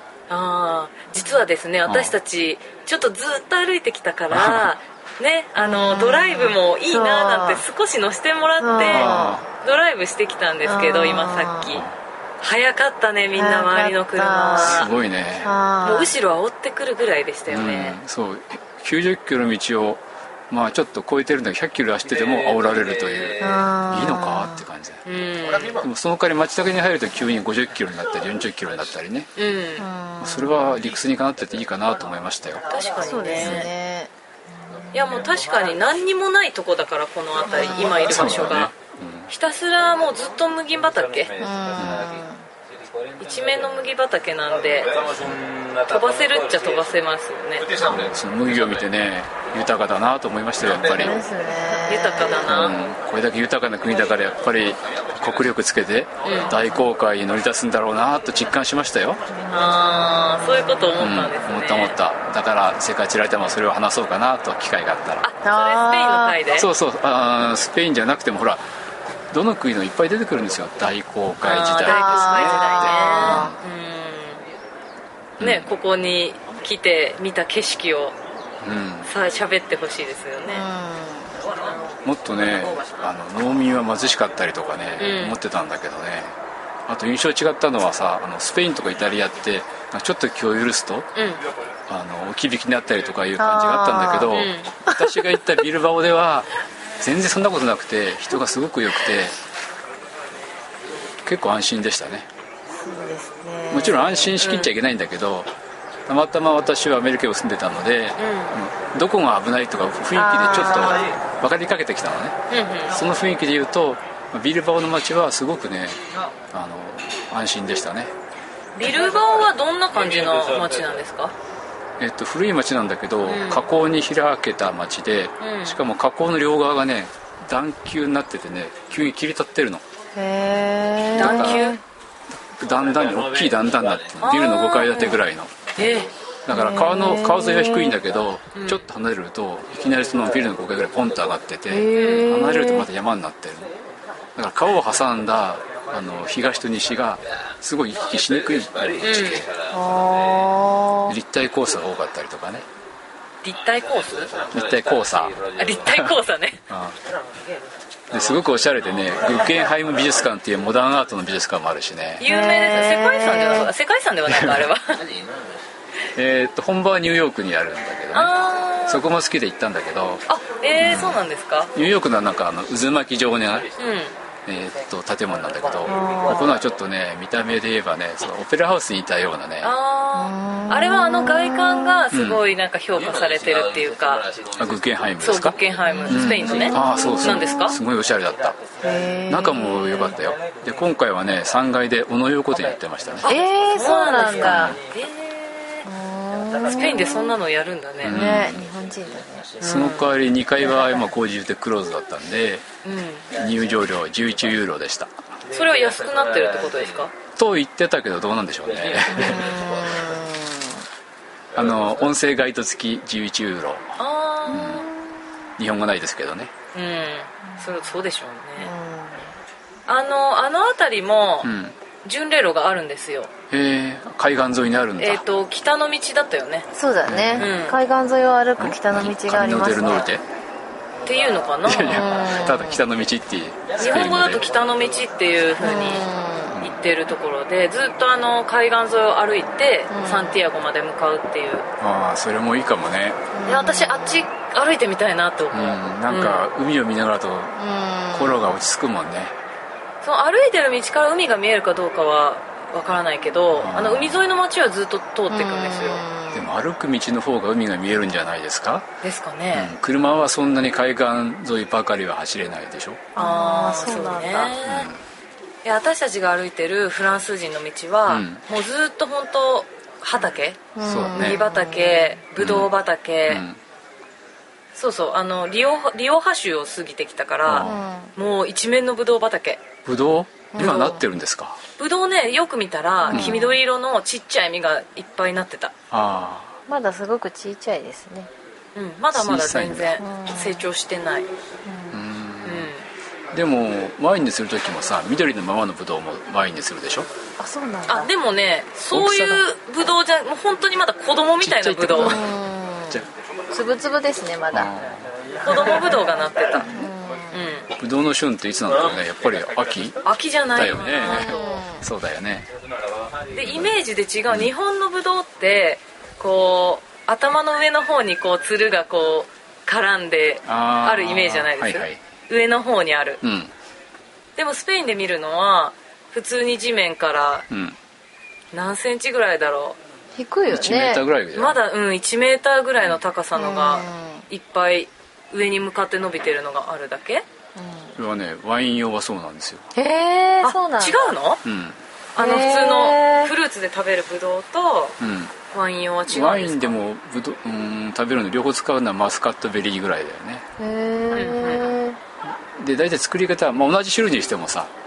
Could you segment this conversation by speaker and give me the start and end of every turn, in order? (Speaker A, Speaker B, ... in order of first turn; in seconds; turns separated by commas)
Speaker A: 0.3-11.8, Speaker B: 1.9-2.1, Speaker B: 4.3-4.7, Speaker C: 5.6-7.6, Speaker C: 8.6-9.4, Speaker B: 8.9-9.4, Speaker C: 10.7-11.7, Speaker B: 11.7-12.0, Speaker A: 12.4-14.9, Speaker C: 13.4-16.1, Speaker B: 14.6-15.5, Speaker A: 15.8-18.0, Speaker B: 17.5-25.0, Speaker C: 23.4-24.6, Speaker A: 25.1-25.8, Speaker B: 25.8-29.3, Speaker A: 29.4-29.9, Speaker C: 29.8-30.8, Speaker B: 30.2-32.8, Speaker A: 32.7-33.7, Speaker C: 33.0-34.1, Speaker C: 34.7-35.2, Speaker A: 34.9-38.7, Speaker C: 37.5-38.0, Speaker B: 38.0-39.3, Speaker A: 39.3-41.4, Speaker C: 41.4-42.5, Speaker B: 41.8-42.1, Speaker A: 43.2-45.0, Speaker A: 45.8-47.8, Speaker B: 47.8-51.2, Speaker C: 50.8-52.5, Speaker A: 51.9-52.8, Speaker B: 52.3-59.2, Speaker A: 56.2-56.5, Speaker C: 59.3-60.9, Speaker A: 59.5-62.0, Speaker B: 61.0-65.3, Speaker A: 65.2-66.7, Speaker C: 65.4-66.4, Speaker B: 66.5-68.6, Speaker B: 69.3-73.6, Speaker A: 71.4-74.4, Speaker C: 71.8-73.5, Speaker B: 75.4-75.7, Speaker A: 75.4-78.2, Speaker B: 78.6-79.1, Speaker A: 79.1-80.7, Speaker C: 80.5-81.3, Speaker B: 82.0-86.4, Speaker A: 85.0-85.4, Speaker B: 86.9-91.1, Speaker A: 91.2-91.4, Speaker B: 91.9-96.5, Speaker C: 93.4-95.5, Speaker A: 94.3-94.7, Speaker B: 97.0-99.4, Speaker B: 101.2-102.3, Speaker C: 102.7-104.3, Speaker B: 103.7-105.5, Speaker A: 104.4-104.7, Speaker B: 106.1-118.1, Speaker A: 108.2-108.6, Speaker C: 110.2-111.2, Speaker A: 112.5-112.9, Speaker A: 118.8-121.3, Speaker B: 122.0-129.8, Speaker A: 123.3-123.7, Speaker A: 125.4-125.8, Speaker C: 130.2-131.8, Speaker A: 131.2-131.8, Speaker B: 131.2-131.7, Speaker B: 132.3-135.7, Speaker A: 134.2-135.2, Speaker A: 135.8-136.1, Speaker B: 136.5-143.7, Speaker C: 136.5-138.0, Speaker A: 138.5-138.8, Speaker C: 141.7-142.9, Speaker A: 142.0-142.3, Speaker B: 144.4-149.5, Speaker A: 149.0-149.4, Speaker C: 149.7-151.2, Speaker B: 151.1-152.7, Speaker A: 153.4-154.4, Speaker B: 154.4-156.1, Speaker A: 155.6-156.6, Speaker B: 156.7-157.0, Speaker B: 158.1-162.2, Speaker A: 162.2-165.1, Speaker C: 162.3-163.7, Speaker B: 164.3-164.7, Speaker B: 166.2-170.2, Speaker A: 168.1-169.1, Speaker A: 170.3-171.7, Speaker B: 170.8-171.2, Speaker B: 171.7-173.7, Speaker A: 173.8-174.2, Speaker B: 174.5-179.7, Speaker C: 175.9-176.6, Speaker A: 179.6-184.3, Speaker C: 180.1-182.0, Speaker B: 182.1-182.4, Speaker B: 184.6-185.6, Speaker A: 185.2-187.8, Speaker C: 185.9-187.8, Speaker B: 186.1-188.6, Speaker C: 188.8-190.2, Speaker B: 189.3-193.3, Speaker A: 193.2-195.9, Speaker C: 193.2-194.8, Speaker B: 194.4-194.8, Speaker C: 195.8-197.3, Speaker A: 196.7-198.3, Speaker B: 198.0-198.7, Speaker C: 198.1-199.6, Speaker A: 199.6-200.1, Speaker B: 199.6-202.7, Speaker C: 200.7-201.0, Speaker A: 202.8-203.3, Speaker B: 203.3-205.2, Speaker A: 205.5-207.1, Speaker B: 207.3-209.6, Speaker C: 209.1-210.8, Speaker B: 211.6-214.0, Speaker A: 214.0-214.9, Speaker C: 214.5-215.5, Speaker B: 214.5-214.9, Speaker B: 215.6-216.5, Speaker A: 216.7-218.7, Speaker C: 217.5-217.8, Speaker C: 218.6-219.3, Speaker A: 219.9-221.5, Speaker B: 221.4-221.8, Speaker A: 222.0-223.3, Speaker B: 223.5-225.2, Speaker A: 225.0-226.7, Speaker C: 226.7-230.1, Speaker B: 227.1-227.5, Speaker A: 227.4-227.8, Speaker B: 228.6-230.2, Speaker A: 231.1-232.1, Speaker B: 231.7-234.4, Speaker C: 231.8-232.8, Speaker A: 233.8-236.1, Speaker C: 235.6-236.6, Speaker A: 236.6-241.7, Speaker C: 239.9-240.4, Speaker B: 241.8-243.2, Speaker C: 243.3-244.3, Speaker A: 243.4-246.5, Speaker B: 245.5-247.6, Speaker C: 247.6-248.6, Speaker B: 248.1-249.4, Speaker A: 250.0-256.0, Speaker B: 253.6-254.3, Speaker C: 255.3-256.5, Speaker B: 256.3-258.9, Speaker A: 259.0-259.7, Speaker B: 259.5-263.1, Speaker A: 263.1-264.9, Speaker C: 263.2-264.6, Speaker B: 264.6-265.0, Speaker A: 265.6-273.4, Speaker B: 268.1-268.4, Speaker C: 270.8-272.2, Speaker B: 270.8-271.4, Speaker B: 272.4-272.7, Speaker B: 273.3-273.6, Speaker A: 274.8-279.6, Speaker B: 277.5-277.8, Speaker C: 277.6-278.1, Speaker B: 279.9-281.6, Speaker C: 280.5-281.0, Speaker A: 280.6-280.9, Speaker A: 281.8-285.7, Speaker C: 283.1-283.6, Speaker B: 283.1-283.4, Speaker B: 285.9-286.6, Speaker C: 286.7-288.3, Speaker A: 288.8-291.3, Speaker B: 289.1-290.0, Speaker C: 290.0-290.7, Speaker C: 291.6-292.0, Speaker B: 291.9-292.7, Speaker A: 292.4-292.9, Speaker B: 293.3-297.1, Speaker C: 297.4-298.1, Speaker A: 297.9-302.2, Speaker B: 298.9-299.4, Speaker B: 301.4-302.3, Speaker C: 302.0-304.7, Speaker B: 304.5-305.1, Speaker A: 305.4-307.7, Speaker C: 306.7-307.5, Speaker B: 307.8-310.0, Speaker A: 310.1-311.6, Speaker B: 310.5-312.5, Speaker C: 311.0-311.9, Speaker A: 313.3-323.2, Speaker B: 313.4-313.7, Speaker B: 320.5-322.0, Speaker B: 323.2-323.5, Speaker A: 324.4-327.5, Speaker B: 327.5-327.8, Speaker A: 328.5-329.8, Speaker C: 330.2-331.1, Speaker B: 330.5-331.6, Speaker A: 331.3-337.2, Speaker C: 333.4-334.2, Speaker C: 337.6-338.0, Speaker B: 338.0-339.6, Speaker C: 339.8-341.2, Speaker A: 340.4-341.4, Speaker B: 341.4-341.8, Speaker A: 342.2-345.0, Speaker C: 342.2-343.3, Speaker B: 345.0-345.3, Speaker A: 345.5-346.8, Speaker B: 346.1-350.5, Speaker C: 350.6-352.0, Speaker A: 351.1-351.8, Speaker B: 352.2-354.7